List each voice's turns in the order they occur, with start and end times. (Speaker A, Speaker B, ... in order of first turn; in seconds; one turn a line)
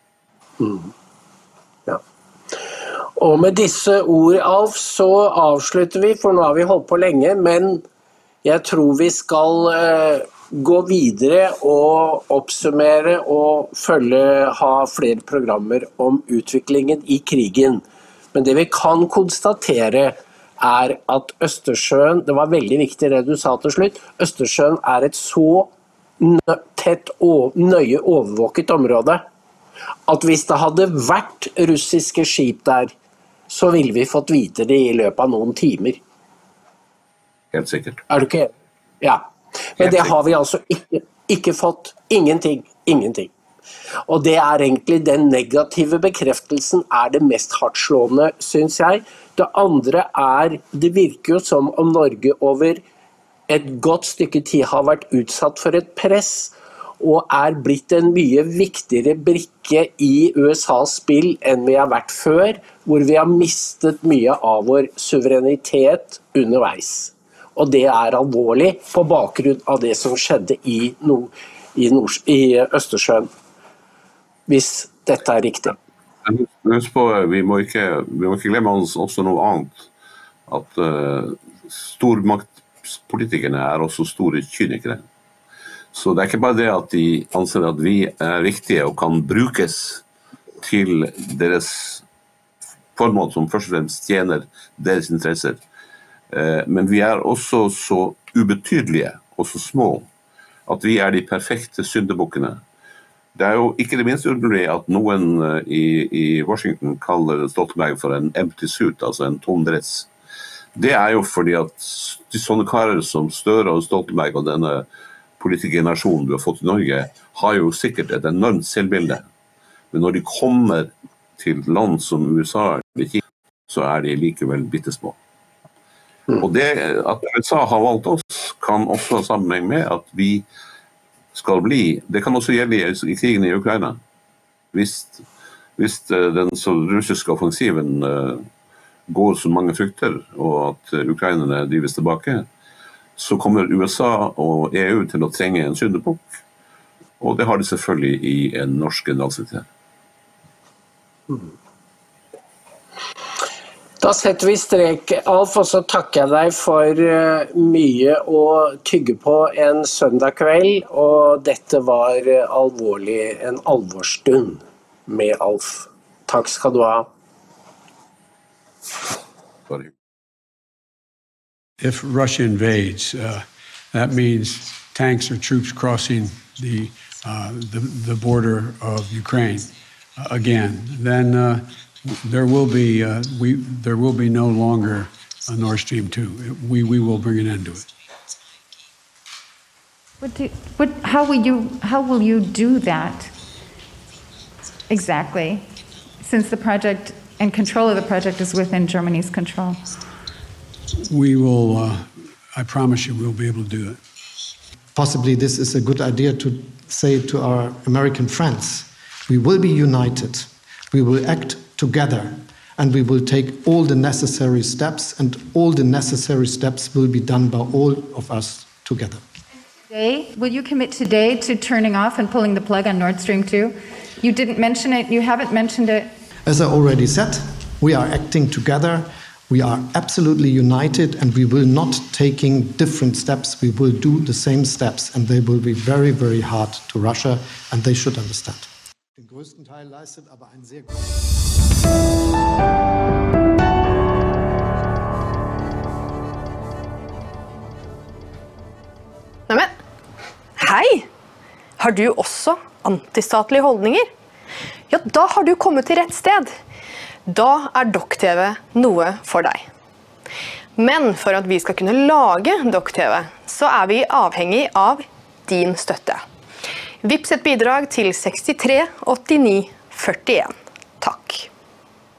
Speaker A: 0.6-0.9
Speaker A: 3.1-7.8
Speaker A: 8.4-29.2
Speaker A: 30.1-32.9
Speaker A: 33.5-36.0
Speaker B: 37.5-38.0
Speaker A: 38.1-38.5
Speaker A: 39.0-43.3
Speaker B: 39.8-40.1
Speaker A: 44.1-52.8
Speaker A: 53.5-73.3
Speaker A: 74.5-75.8
Speaker B: 76.2-79.9
Speaker B: 80.5-85.0
Speaker B: 85.9-90.0
Speaker B: 90.6-92.0
Speaker B: 92.9-95.6
Speaker B: 96.3-100.1
Speaker B: 100.7-102.6
Speaker B: 103.3-110.1
Speaker B: 110.7-114.8
Speaker B: 115.4-119.2
Speaker B: 119.9-125.2
Speaker B: 126.4-130.4
Speaker B: 131.3-134.0
Speaker B: 134.7-135.2
Speaker B: 135.8-138.5
Speaker B: 139.1-142.4
Speaker B: 143.2-146.3
Speaker B: 147.2-149.7
Speaker A: 154.0-167.1
Speaker C: 171.8-187.9
Speaker D: 190.2-193.3
Speaker D: 194.9-195.7
Speaker D: 196.2-199.9
Speaker C: 201.0-204.0
Speaker E: 204.9-219.2
Speaker D: 219.9-226.1
Speaker E: 226.4-241.3
Speaker F: 250.6-251.1
Speaker F: 251.8-254.1
Speaker F: 254.9-256.6
Speaker F: 257.2-259.7
Speaker F: 260.8-266.2
Speaker F: 267.0-271.5